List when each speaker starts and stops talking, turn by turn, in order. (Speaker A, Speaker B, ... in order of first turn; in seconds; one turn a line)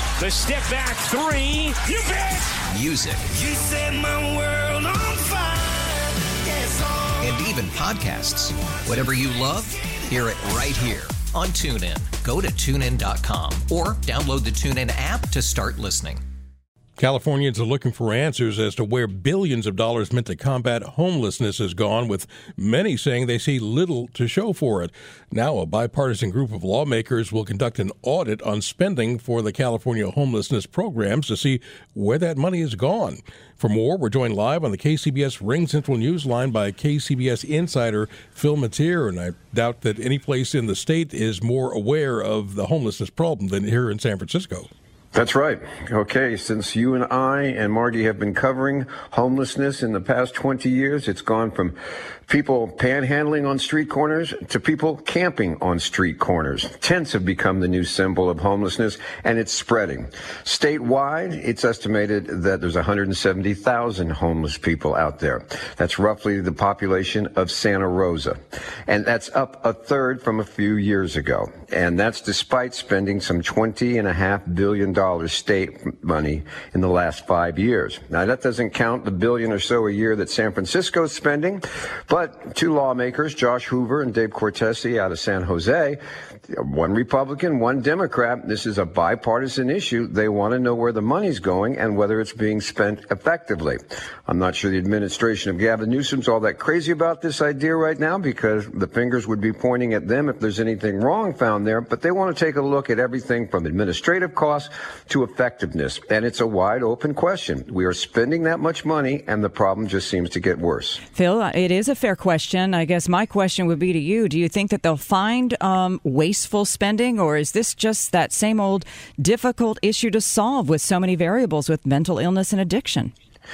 Speaker A: 0.2-2.5
Speaker B: 2.7-3.4
Speaker C: 3.4-7.0
Speaker B: 7.2-16.2
Speaker D: 17.0-44.7
Speaker E: 45.1-51.8
Speaker E: 52.3-68.4
Speaker E: 68.9-86.0
Speaker E: 86.5-111.0
Speaker F: 111.1-123.1